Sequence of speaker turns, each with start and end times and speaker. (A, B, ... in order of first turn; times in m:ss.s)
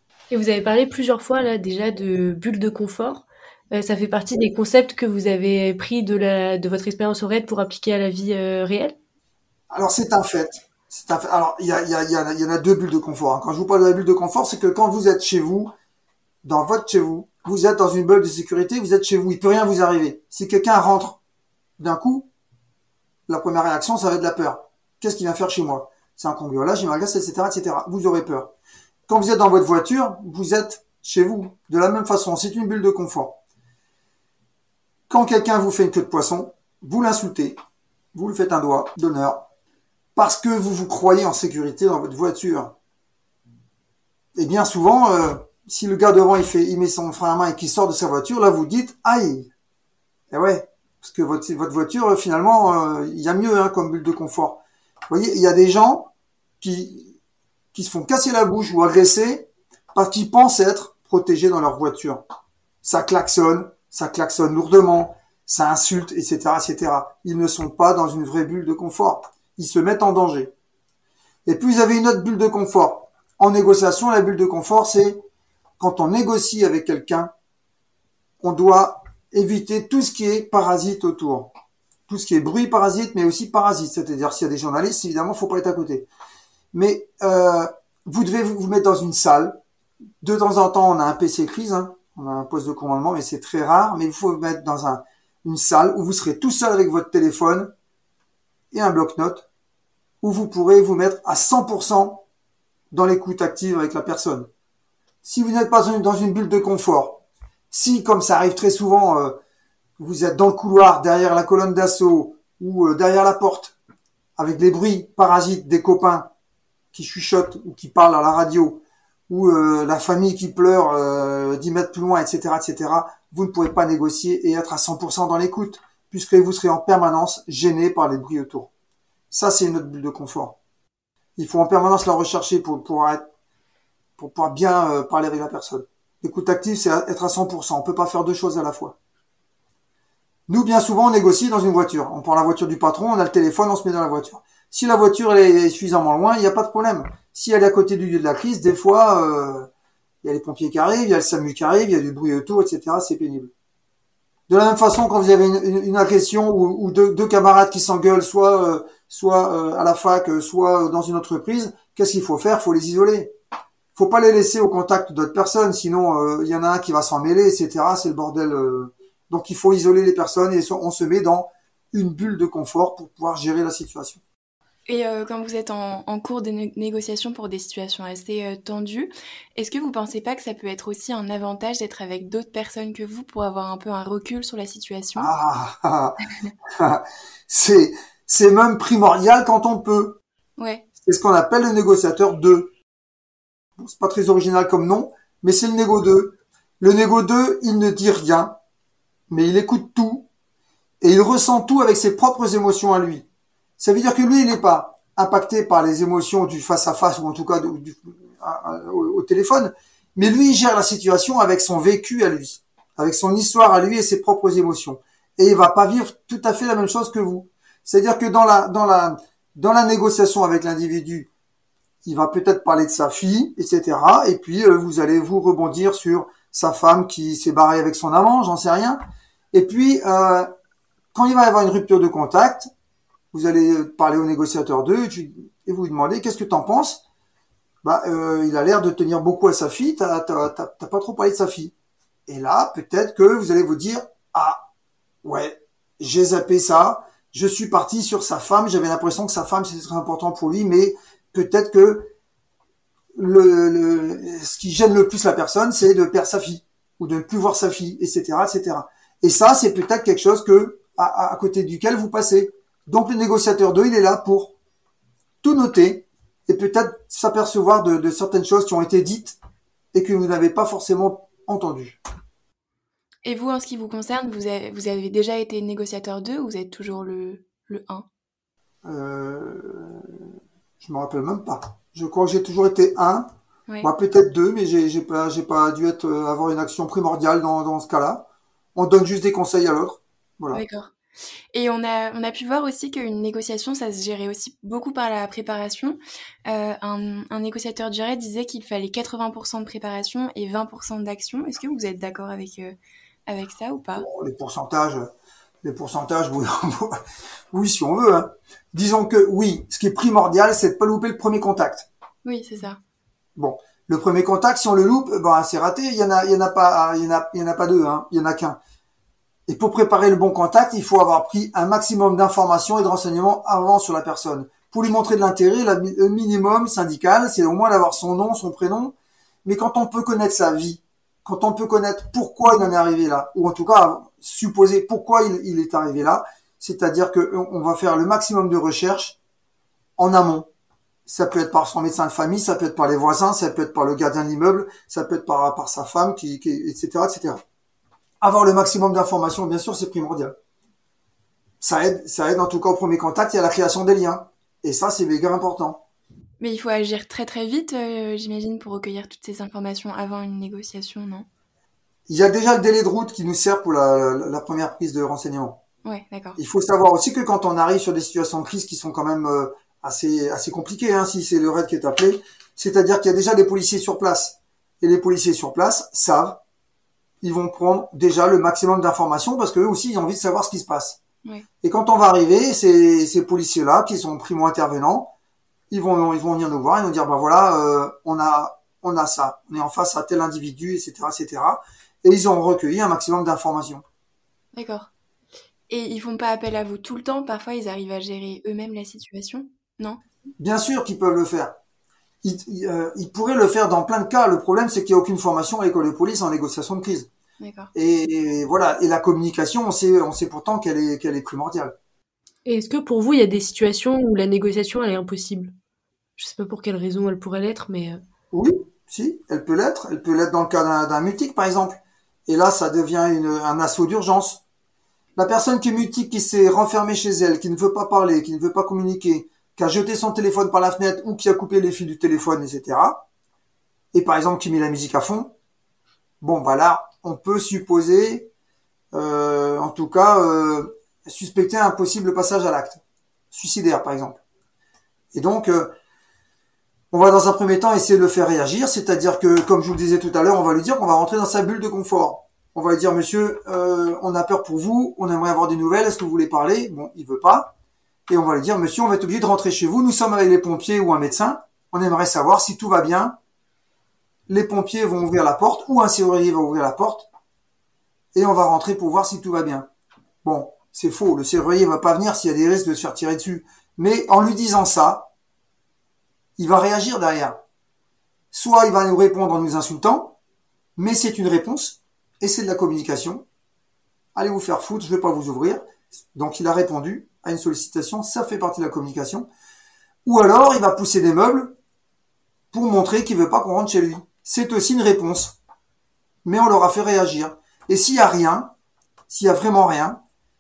0:00.3-0:09.0 A
0:09.7-0:15.7 B
0:16.4-0:21.2 B
0:21.8-0:22.3 B
0:23.3-0:28.5 B
0:29.1-0:33.4 B
0:35.1-0:37.6 B
0:38.1-0:39.5 B
0:40.1-0:42.7 B
0:44.4-0:49.5 B
0:50.3-0:57.1 B
0:57.7-1:02.2 B
1:02.8-1:10.5 B
1:11.5-1:15.2 B
1:15.8-1:17.3 B
1:18.4-1:21.5 B
1:22.1-1:26.1 B
1:26.7-1:29.6 B
1:30.2-1:37.7 B
1:38.7-1:39.5 B
1:40.2-1:42.2 B
1:42.9-1:44.5 B
1:45.2-1:49.4 B
1:50.0-1:53.8 B
1:54.4-1:56.3 B
1:56.9-2:08.7 B
2:09.3-2:10.6 B
2:11.4-2:13.3 B
2:14.2-2:19.0 B
2:20.5-2:29.7 B
2:30.2-2:33.5 B
2:34.5-2:43.3 B
2:44.0-2:54.2 B
2:54.9-3:05.3 C
3:05.2-3:10.2 B
3:10.6-3:10.9 C
3:11.0-3:12.7 B
3:13.8-3:18.6 B
3:19.3-3:20.3 B
3:21.0-3:23.2 B
3:23.8-3:41.3 B
3:42.0-3:49.0 B
3:49.5-3:50.5 B
3:51.1-3:52.7 B
3:53.3-3:57.0 B
3:57.8-4:01.7 B
4:02.3-4:04.7 B
4:05.2-4:12.1 B
4:13.1-4:24.5 B
4:25.4-4:29.4 B
4:29.9-4:32.0 B
4:33.2-4:38.0 C
4:38.8-4:43.3 B
4:43.8-4:50.6 B
4:50.5-4:50.9 C
4:51.5-5:02.8 C
5:03.3-5:04.0 C
5:04.0-5:05.1 B
5:05.6-5:11.9 B
5:12.2-5:12.8 C
5:13.4-5:18.6 B
5:19.5-5:28.9 B
5:29.4-5:39.2 B
5:40.0-5:40.5 B
5:41.0-5:47.4 B
5:48.2-5:50.4 B
5:51.6-5:55.8 B
5:56.4-6:01.2 C
6:02.1-6:05.6 B
6:05.8-6:06.4 C
6:06.4-6:16.4 B
6:17.2-6:21.0 B
6:21.6-6:25.1 B
6:25.7-6:33.8 B
6:34.5-6:34.9 C
6:35.7-6:40.0 C
6:40.4-6:41.6 B
6:42.2-6:47.1 B
6:47.4-6:47.7 C
6:47.7-6:51.8 B
6:52.5-6:55.5 A
6:56.2-6:58.0 A
6:58.3-7:04.4 B
7:05.2-7:13.0 B
7:13.9-7:15.3 B
7:16.2-7:18.3 B
7:18.9-7:24.2 B
7:25.1-7:25.7 B
7:26.9-7:37.5 B
7:38.1-7:43.2 B
7:44.3-7:47.1 B
7:48.2-7:49.7 B
7:50.2-7:55.1 B
7:56.4-7:57.4 B
7:58.3-8:00.2 B
8:00.8-8:03.2 B
8:04.2-8:09.3 B
8:10.0-8:11.6 B
8:12.5-8:15.4 B
8:16.2-8:18.5 B
8:19.1-8:20.0 B